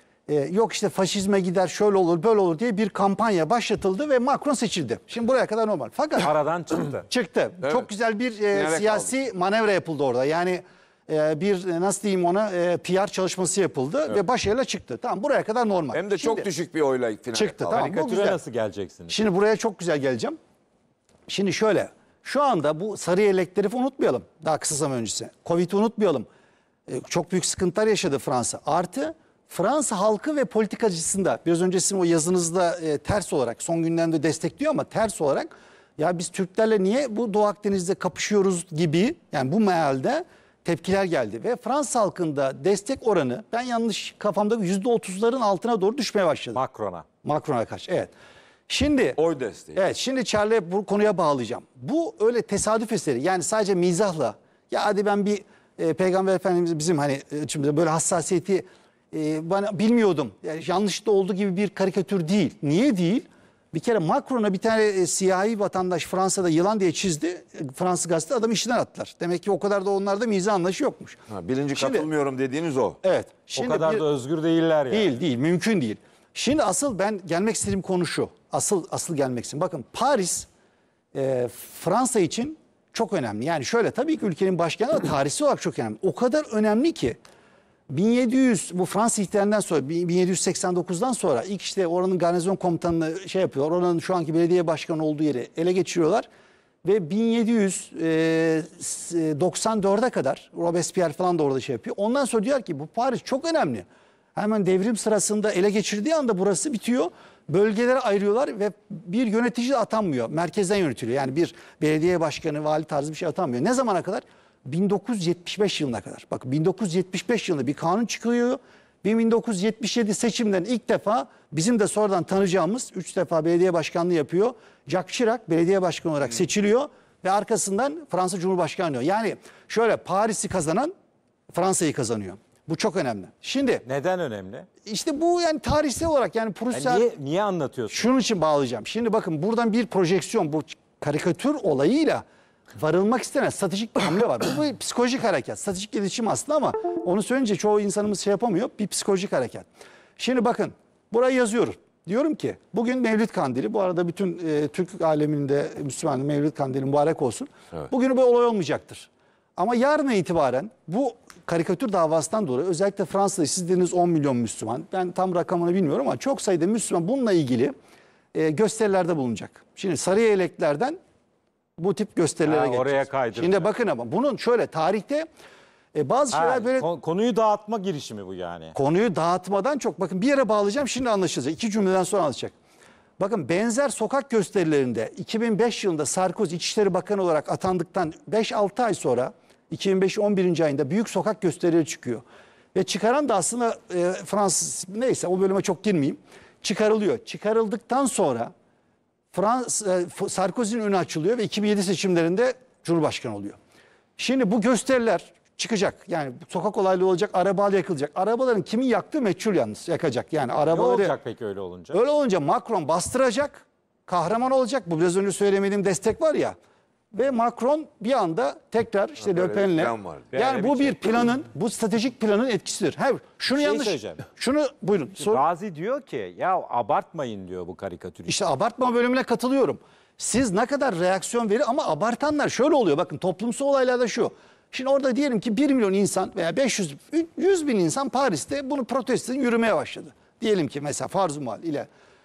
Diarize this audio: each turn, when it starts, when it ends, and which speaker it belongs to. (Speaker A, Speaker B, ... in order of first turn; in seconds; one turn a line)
Speaker A: 0.3-6.3
Speaker B: 6.2-7.1
Speaker A: 7.0-16.5
Speaker C: 8.5-9.1
Speaker C: 15.9-17.8
Speaker A: 17.3-18.4
Speaker B: 17.7-19.1
Speaker A: 19.1-20.4
Speaker A: 21.3-26.3
Speaker A: 26.9-46.6
Speaker B: 46.5-47.0
Speaker A: 47.2-48.1
Speaker A: 48.7-49.2
Speaker C: 49.2-49.8
Speaker A: 49.7-71.2
Speaker C: 71.3-73.0
Speaker A: 71.7-72.1
Speaker A: 73.0-74.0
Speaker B: 73.5-75.1
Speaker A: 74.9-80.5
Speaker A: 81.1-87.2
Speaker A: 87.9-96.3
Speaker A: 96.8-130.9
Speaker A: 131.5-133.8
Speaker B: 133.8-134.7
Speaker A: 134.8-137.1
Speaker B: 136.7-138.1
Speaker A: 137.9-142.2
Speaker A: 142.8-149.7
Speaker A: 150.2-167.7
Speaker A: 168.3-171.0
Speaker A: 171.8-175.3
Speaker B: 172.4-173.7
Speaker A: 175.9-176.9
Speaker B: 176.3-178.8
Speaker A: 178.7-182.5
Speaker A: 183.2-198.5
Speaker A: 199.3-203.6
Speaker A: 204.2-211.1
Speaker B: 210.7-212.0
Speaker A: 211.9-216.6
Speaker A: 217.1-225.4
Speaker C: 219.2-220.5
Speaker B: 220.3-221.0
Speaker B: 223.5-224.2
Speaker B: 225.2-228.4
Speaker A: 228.2-241.9